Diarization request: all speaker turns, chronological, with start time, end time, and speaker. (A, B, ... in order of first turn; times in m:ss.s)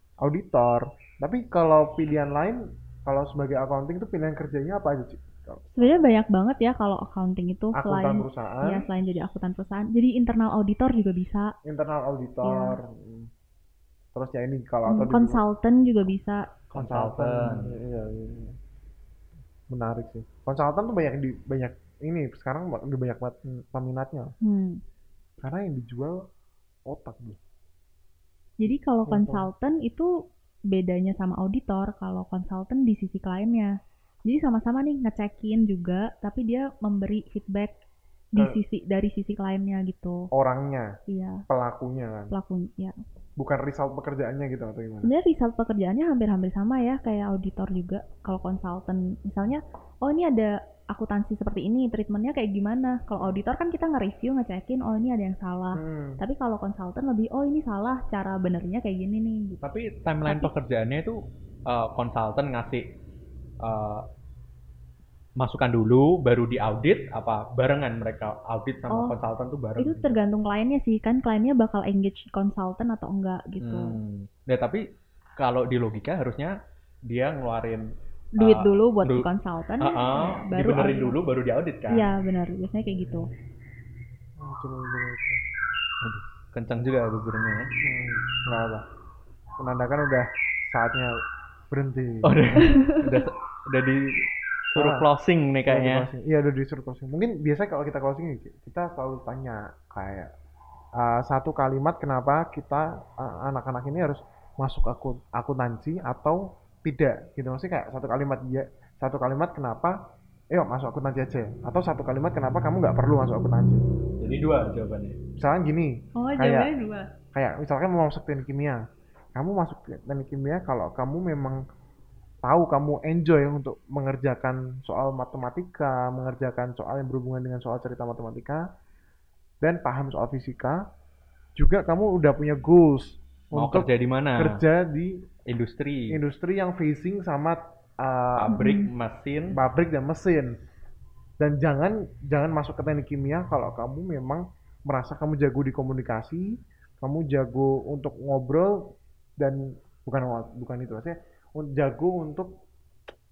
0:00.2-0:06.0 A
0:05.7-0:11.5 B
0:07.7-0:08.9 A
0:11.6-0:13.3 A
0:12.4-0:12.8 B
0:14.1-0:15.4 A
0:14.9-0:16.5 B
0:16.7-0:17.8 C
0:16.7-0:18.6 A
0:19.7-0:24.4 A
0:24.4-0:24.8 B
0:25.4-0:26.3 A
0:26.9-0:27.4 A
0:28.6-0:30.1 B
0:29.1-0:29.5 A
0:30.7-0:33.7 B
0:34.3-0:37.8 B
0:38.3-0:40.3 B
0:40.3-0:41.0 A
0:41.1-0:41.4 B
0:41.5-0:42.3 A
0:42.3-0:43.0 B
0:43.4-0:45.1 A
0:45.0-0:59.6 B
0:55.7-0:56.2 A
0:59.6-1:02.8 C
1:00.2-1:00.5 B
1:03.6-1:04.0 C
1:05.4-1:10.1 C
1:08.9-1:09.2 B
1:09.8-1:14.0 B
1:13.6-1:14.8 C
1:15.4-1:16.5 C
1:17.1-1:17.9 C
1:18.4-1:21.2 B
1:18.4-1:19.3 C
1:19.8-1:22.1 C
1:21.9-1:23.3 B
1:24.4-1:25.4 A
1:26.0-1:27.7 C
1:27.8-1:28.9 A
1:29.6-1:31.1 A
1:31.7-1:32.4 A
1:32.2-1:36.1 C
1:32.6-1:33.3 B
1:34.8-1:35.1 A
1:35.7-1:40.3 A
1:41.0-1:50.0 A
1:50.5-1:53.9 A
1:54.2-1:55.2 C
1:55.4-1:56.7 A
1:56.2-1:57.1 B
1:57.3-1:58.8 A
1:59.4-2:01.6 A
2:02.4-2:08.6 A
2:09.6-2:10.8 A
2:11.6-2:15.2 A
2:13.5-2:14.6 C
2:15.5-2:16.2 C
2:16.1-2:18.6 A
2:18.4-2:19.6 C
2:18.5-2:18.9 B
2:19.5-2:20.6 A
2:21.4-2:32.6 A